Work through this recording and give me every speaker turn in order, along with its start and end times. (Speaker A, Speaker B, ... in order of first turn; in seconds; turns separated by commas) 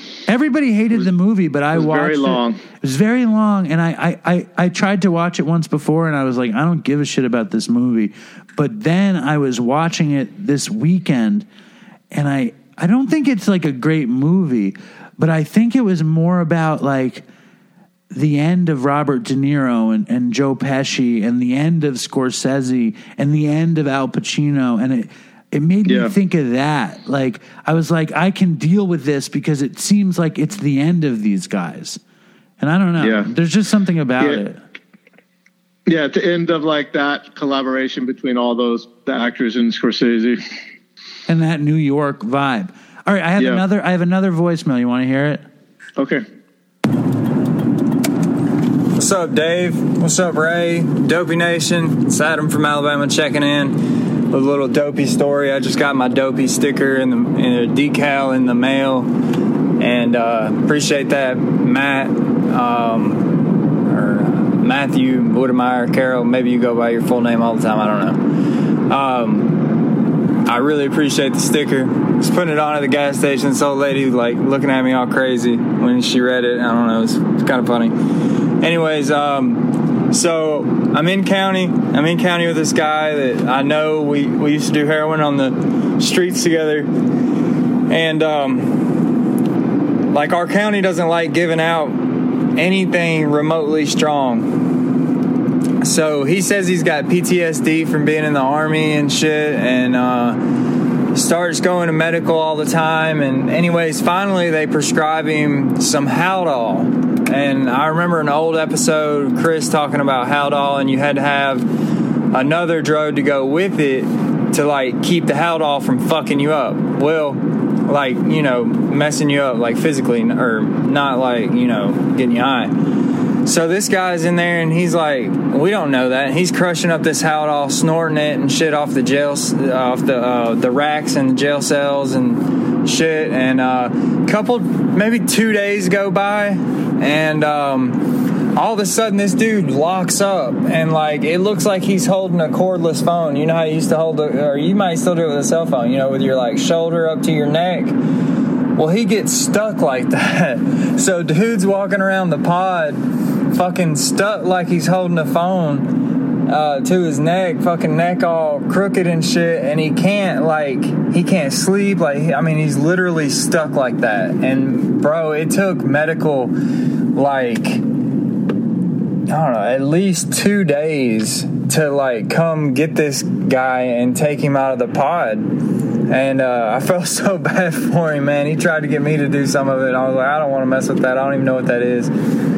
Speaker A: 0.3-11.5, Speaker B: 1.7-2.6, Speaker A: 12.1-17.2, Speaker A: 18.1-32.0, Speaker B: 25.9-26.1, Speaker A: 32.6-34.6, Speaker B: 33.0-33.3, Speaker B: 35.9-40.4, Speaker A: 41.3-45.4, Speaker B: 43.4-43.6, Speaker B: 46.0-46.2, Speaker C: 49.0-59.1, Speaker C: 59.8-87.0, Speaker C: 87.9-89.2, Speaker C: 90.1-95.0, Speaker C: 95.8-148.0, Speaker C: 148.7-166.6, Speaker C: 167.1-168.0, Speaker C: 169.3-182.1